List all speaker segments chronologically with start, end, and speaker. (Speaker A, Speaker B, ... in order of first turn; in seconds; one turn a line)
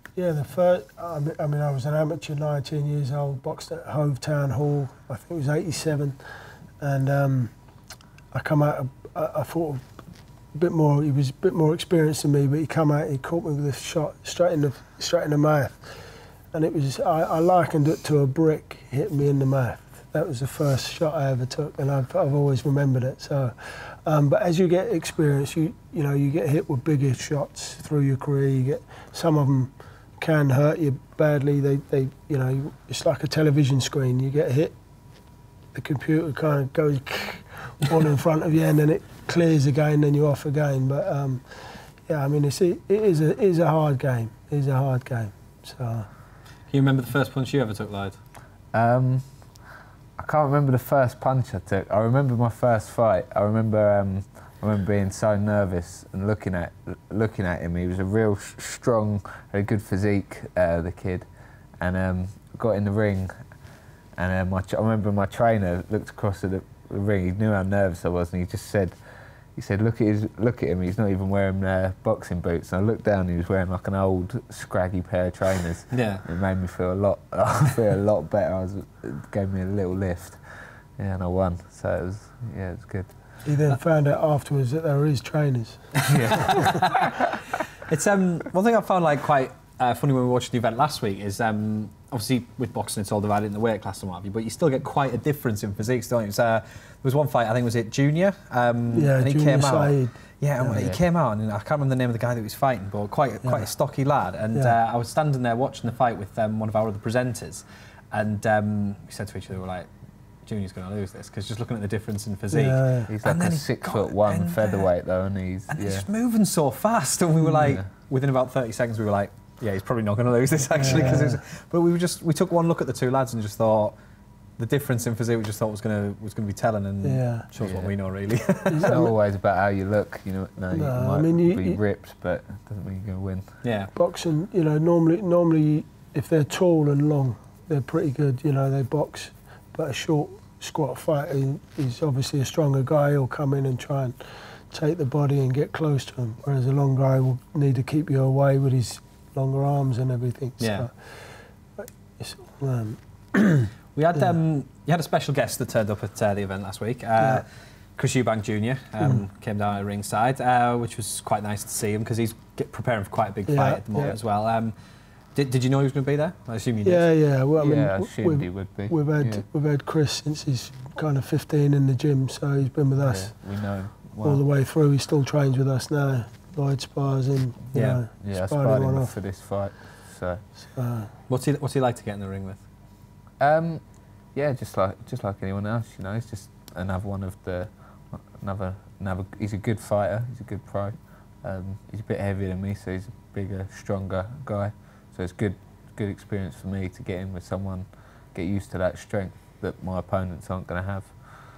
Speaker A: 0.1-6.2
Speaker A: 6.8-7.5
Speaker A: 8.3-9.8
Speaker A: 10.5-15.9
Speaker A: 16.5-34.7
Speaker A: 35.7-46.1
Speaker B: 46.7-48.2
Speaker C: 48.7-49.2
Speaker C: 50.2-61.3
Speaker C: 61.8-63.3
Speaker C: 64.2-69.0
Speaker C: 69.5-80.4
Speaker B: 75.9-76.2
Speaker C: 81.0-83.1
Speaker A: 83.4-86.6
Speaker C: 86.1-86.7
Speaker B: 86.1-87.2
Speaker B: 87.9-109.9
Speaker A: 98.9-100.8
Speaker C: 100.8-101.0
Speaker A: 103.4-103.7
Speaker B: 110.5-114.9
Speaker A: 112.5-113.1
Speaker C: 113.1-116.1
Speaker B: 115.7-123.9
Speaker A: 120.8-121.4
Speaker B: 124.6-128.9
Speaker A: 127.0-127.5
Speaker C: 127.6-127.9
Speaker A: 128.7-129.1
Speaker C: 128.8-133.6
Speaker A: 130.7-131.8
Speaker B: 133.6-133.9
Speaker A: 133.9-144.2
Speaker A: 144.7-154.3
Speaker B: 150.6-150.8
Speaker B: 153.9-157.4
Speaker B: 158.0-164.7
Speaker A: 163.5-164.1
Speaker B: 165.3-167.1
Speaker A: 166.8-173.4
Speaker C: 167.6-169.4
Speaker C: 173.0-174.4
Speaker A: 174.2-179.2
Speaker B: 177.7-178.0
Speaker C: 178.2-180.4
Speaker A: 180.6-181.1
Speaker B: 181.3-182.6
Speaker C: 183.4-183.8
Speaker C: 184.3-201.1